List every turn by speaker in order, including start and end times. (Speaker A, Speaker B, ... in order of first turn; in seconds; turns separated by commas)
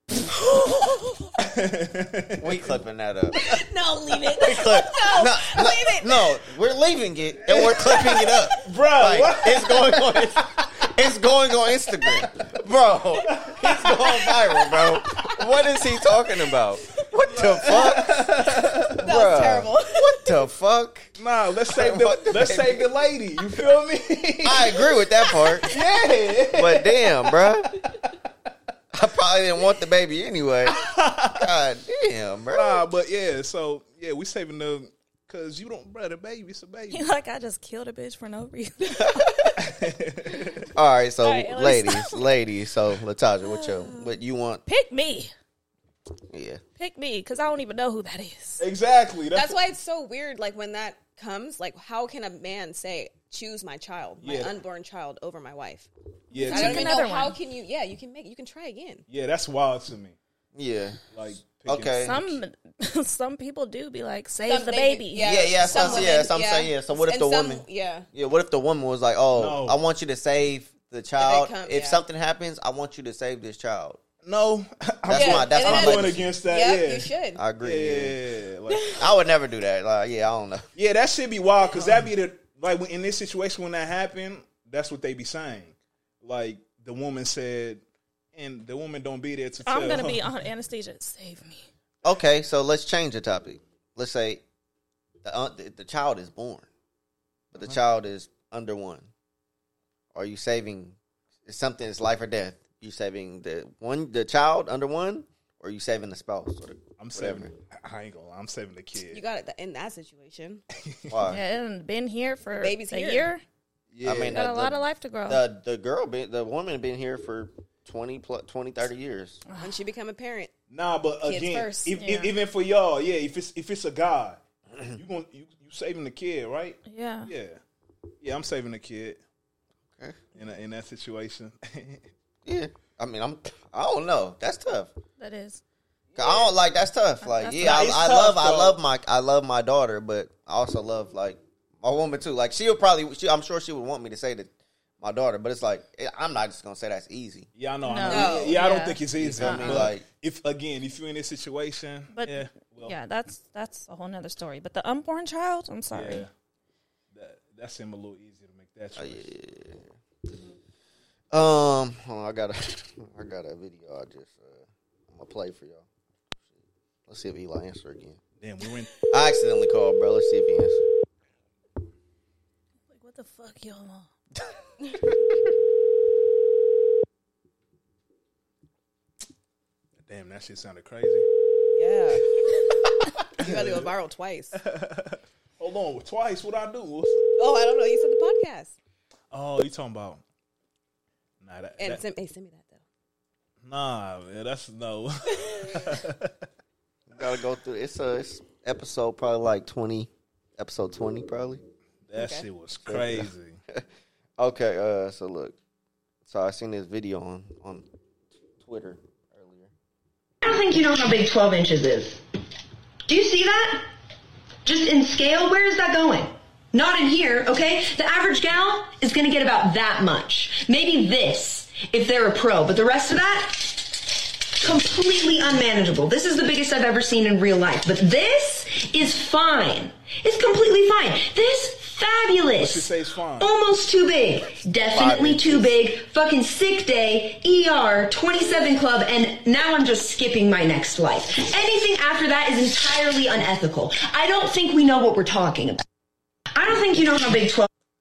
Speaker A: 0.5-1.2, Speaker B: 1.4-2.8, Speaker C: 2.4-3.4, Speaker A: 3.3-6.4, Speaker C: 4.4-21.1, Speaker B: 7.5-7.7, Speaker A: 7.8-8.4, Speaker B: 8.6-10.7, Speaker B: 13.2-14.3, Speaker B: 17.3-19.0, Speaker A: 19.0-20.3, Speaker B: 21.2-24.9, Speaker C: 21.7-22.9, Speaker C: 24.4-25.7, Speaker B: 25.7-26.9, Speaker C: 26.5-27.7, Speaker C: 28.9-32.9, Speaker B: 30.6-31.5, Speaker B: 32.5-37.1, Speaker D: 36.9-39.6, Speaker C: 39.0-39.3, Speaker B: 39.5-40.7, Speaker C: 40.7-44.6, Speaker D: 41.2-42.3, Speaker D: 43.4-45.3, Speaker C: 46.3-46.6, Speaker D: 46.8-48.6, Speaker B: 48.6-49.5, Speaker A: 49.3-55.9, Speaker B: 54.2-54.5, Speaker B: 56.3-56.9, Speaker D: 56.3-57.4, Speaker A: 56.5-59.0, Speaker B: 59.1-60.2, Speaker C: 60.5-62.2, Speaker B: 61.1-62.4, Speaker D: 62.0-66.3, Speaker A: 64.5-68.1, Speaker C: 65.2-74.0, Speaker B: 69.3-69.8, Speaker A: 71.2-72.0, Speaker B: 74.2-77.1, Speaker C: 75.1-76.3, Speaker A: 75.1-77.4, Speaker C: 77.3-78.2, Speaker B: 77.6-79.0, Speaker C: 78.9-80.7, Speaker B: 80.8-87.8, Speaker B: 88.3-90.3, Speaker D: 89.6-91.7, Speaker C: 92.0-94.4, Speaker C: 95.2-96.7, Speaker C: 97.5-99.1, Speaker C: 100.1-107.5, Speaker B: 107.0-109.2, Speaker A: 109.1-110.6, Speaker B: 110.8-111.2, Speaker C: 111.1-111.4, Speaker D: 111.2-113.4, Speaker A: 112.5-113.3, Speaker B: 113.9-114.4, Speaker C: 114.0-119.4, Speaker D: 114.3-115.4, Speaker D: 119.5-119.7, Speaker A: 119.6-120.5, Speaker B: 120.7-127.6, Speaker A: 121.2-122.0, Speaker D: 122.0-122.3, Speaker D: 126.8-127.3, Speaker B: 128.2-129.2, Speaker C: 129.9-130.2, Speaker B: 130.3-132.1, Speaker C: 132.4-134.9, Speaker D: 135.2-135.6, Speaker C: 136.2-147.5, Speaker D: 137.2-137.9, Speaker B: 137.6-138.8, Speaker B: 147.6-152.9, Speaker D: 147.8-149.9, Speaker A: 148.1-148.6, Speaker C: 149.2-150.0, Speaker D: 152.1-156.3, Speaker B: 155.9-156.3, Speaker B: 157.1-159.3, Speaker C: 159.0-159.9, Speaker C: 161.3-165.9, Speaker C: 167.1-168.2, Speaker B: 168.4-168.9, Speaker C: 169.1-170.8, Speaker D: 172.9-174.1, Speaker B: 180.1-181.3, Speaker A: 181.7-182.3, Speaker A: 183.4-184.6, Speaker B: 183.4-183.9, Speaker B: 184.6-187.3, Speaker A: 187.4-188.7, Speaker B: 189.3-190.2, Speaker B: 191.4-192.0, Speaker A: 191.8-192.8, Speaker B: 193.6-196.4, Speaker C: 197.1-201.6, Speaker B: 202.1-203.6, Speaker A: 202.2-202.4, Speaker C: 202.8-203.8, Speaker C: 204.4-205.6, Speaker C: 206.3-207.8, Speaker C: 208.6-209.7, Speaker E: 210.4-212.2, Speaker E: 213.1-213.9, Speaker E: 214.6-245.8, Speaker B: 232.5-233.5, Speaker C: 234.9-235.8, Speaker E: 246.5-247.7